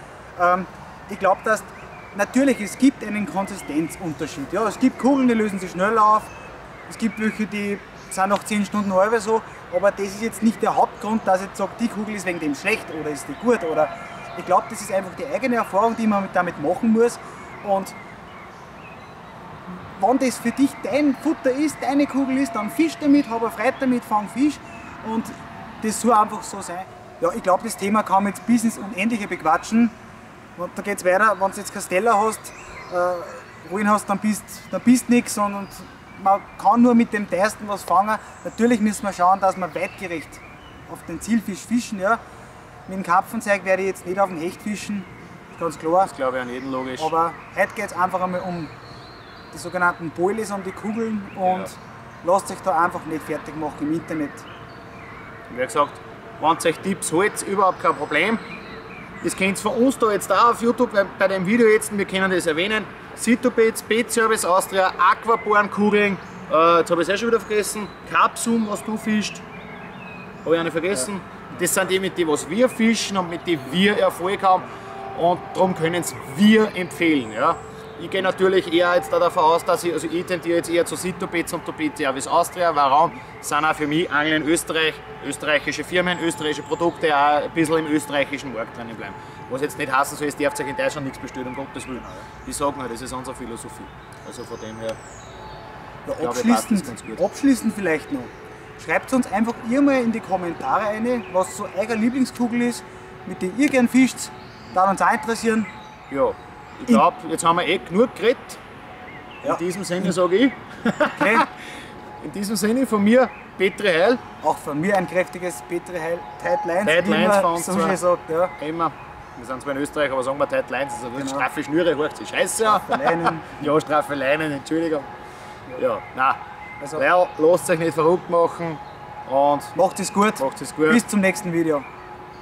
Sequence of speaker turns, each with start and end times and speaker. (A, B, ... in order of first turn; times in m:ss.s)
0:00.4-0:06.3 A
0:06.9-0:17.9 A
0:19.9-0:29.9 A
0:30.6-0:42.2 A
0:42.9-0:46.1 A
0:46.0-0:47.1 B
0:47.0-0:48.7 A
0:49.5-0:54.4 A
0:55.5-0:58.4 B
0:59.2-1:09.4 B
1:10.4-1:35.0 B
1:36.0-1:45.7 A
1:36.2-1:37.2 B
1:46.1-1:48.6 B
1:49.4-1:51.4 B
1:51.1-1:51.4 A
1:52.2-1:54.2 B
1:54.4-1:58.5 A
1:56.8-1:58.0 B
1:58.6-2:05.1 B
2:01.2-2:01.5 A
2:02.6-2:03.7 A
2:05.8-2:06.4 B
2:07.0-2:09.7 B
2:09.7-2:11.8 A
2:10.4-2:11.0 B